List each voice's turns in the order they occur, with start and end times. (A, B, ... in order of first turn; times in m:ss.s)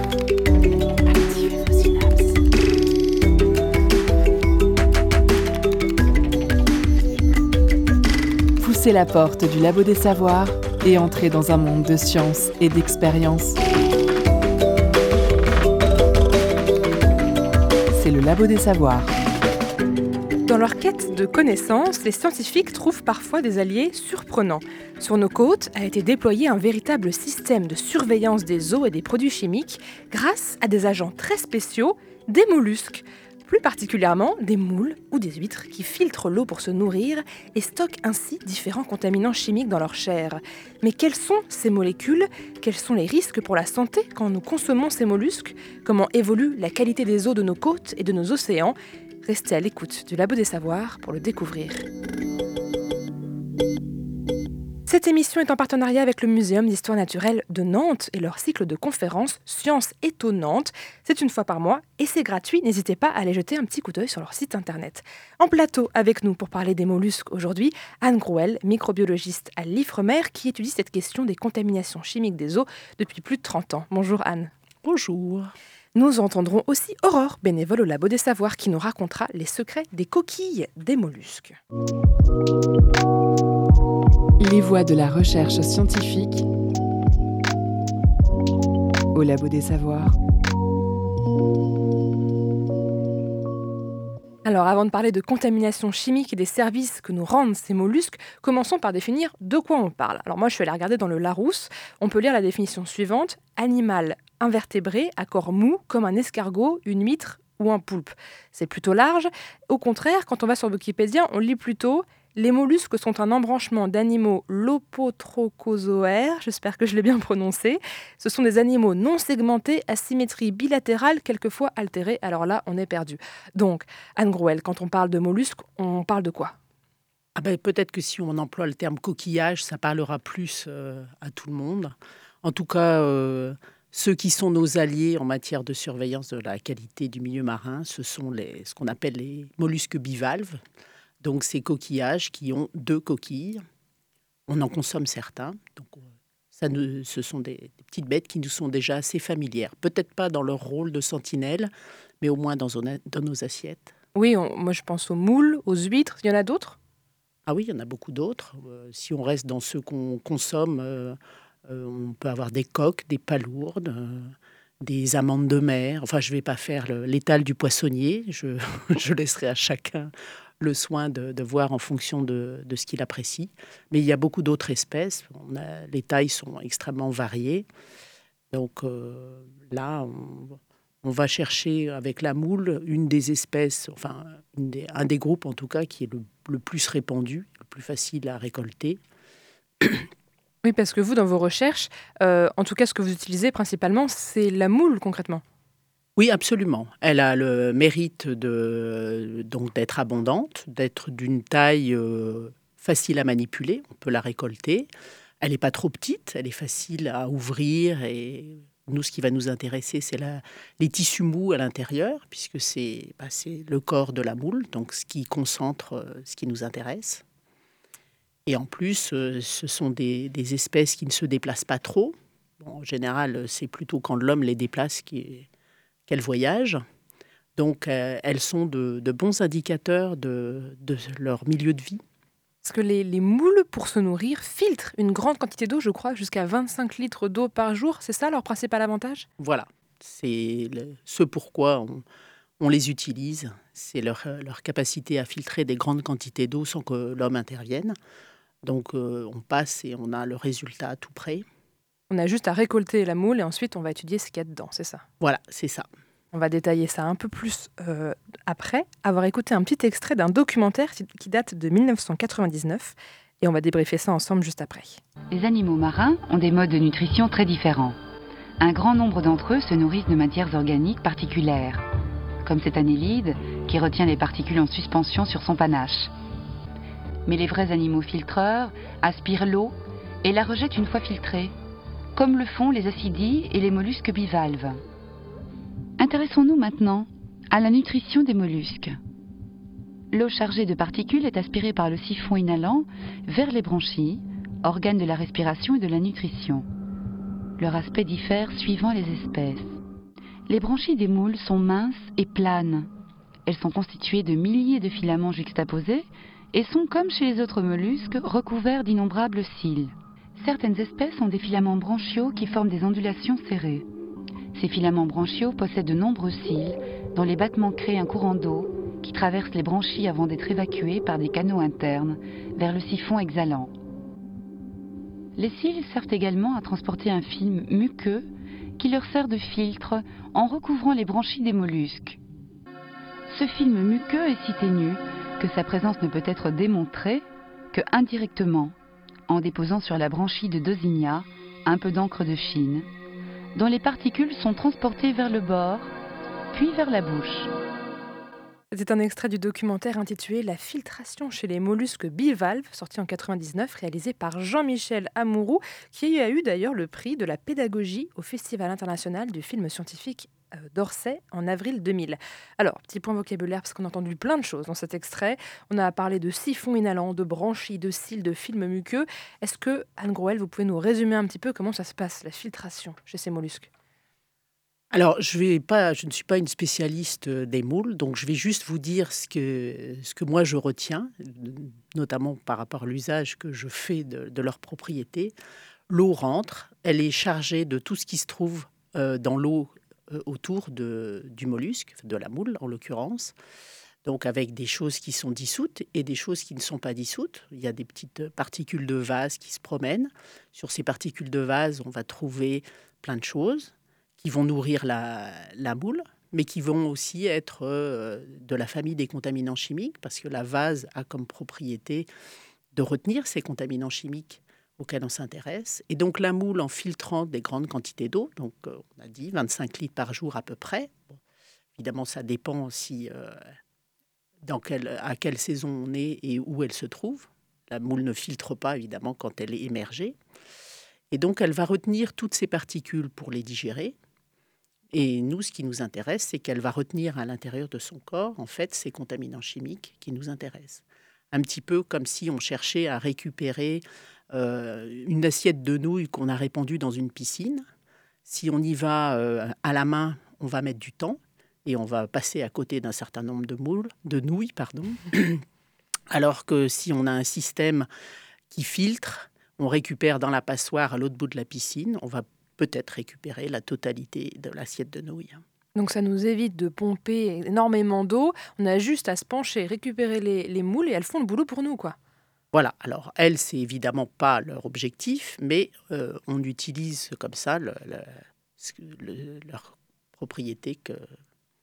0:01.0-0:02.4 A
0:08.6-0:13.6 A
0:17.9-0:19.1 A
0:20.5-0:51.8 B
0:54.9-1:14.5 B
1:14.8-1:15.5 C
1:15.9-1:21.6 B
1:24.4-1:26.4 A
1:29.1-1:30.2 A
1:34.4-2:06.6 B
2:07.4-2:20.6 C
2:21.2-2:23.6 C
2:24.5-2:33.9 C
2:34.1-2:36.8 B
2:37.4-2:57.7 C
2:58.5-3:09.0 C
3:09.8-3:10.1 C
3:10.6-3:15.4 B
3:16.2-3:24.9 C
3:25.4-3:37.2 C
3:38.4-3:45.5 C
3:46.1-3:46.8 C
3:47.6-3:52.0 C
3:52.6-3:59.2 B
3:59.4-4:02.0 C
4:02.6-4:08.0 C
4:08.6-4:11.4 C
4:12.1-4:15.0 B
4:15.2-4:15.9 C
4:16.3-4:25.0 B
4:25.3-4:28.0 D
4:28.6-4:31.8 D
4:32.4-4:36.1 D
4:37.2-4:41.5 D
4:42.2-4:44.8 D
4:46.0-4:49.0 D
4:50.1-4:56.6 D
4:57.6-4:59.7 D
5:00.5-5:02.9 D
5:03.4-5:13.8 D
5:14.5-5:23.7 D
5:25.4-5:28.3 D
5:28.8-5:32.2 D
5:33.3-5:38.7 D
5:39.3-5:42.9 D
5:43.5-5:45.9 D
5:46.5-5:47.5 D
5:48.7-6:13.7 B
6:14.9-6:25.3 C
6:25.9-6:33.3 C
6:34.0-6:52.1 C
6:52.7-7:01.2 C
7:01.8-7:03.5 C
7:04.4-7:10.2 C
7:11.1-7:14.0 C
7:14.9-7:27.6 C
7:28.2-7:35.4 C
7:36.1-7:37.9 C
7:38.5-7:45.4 C
7:45.7-7:52.0 B
7:52.5-8:01.1 C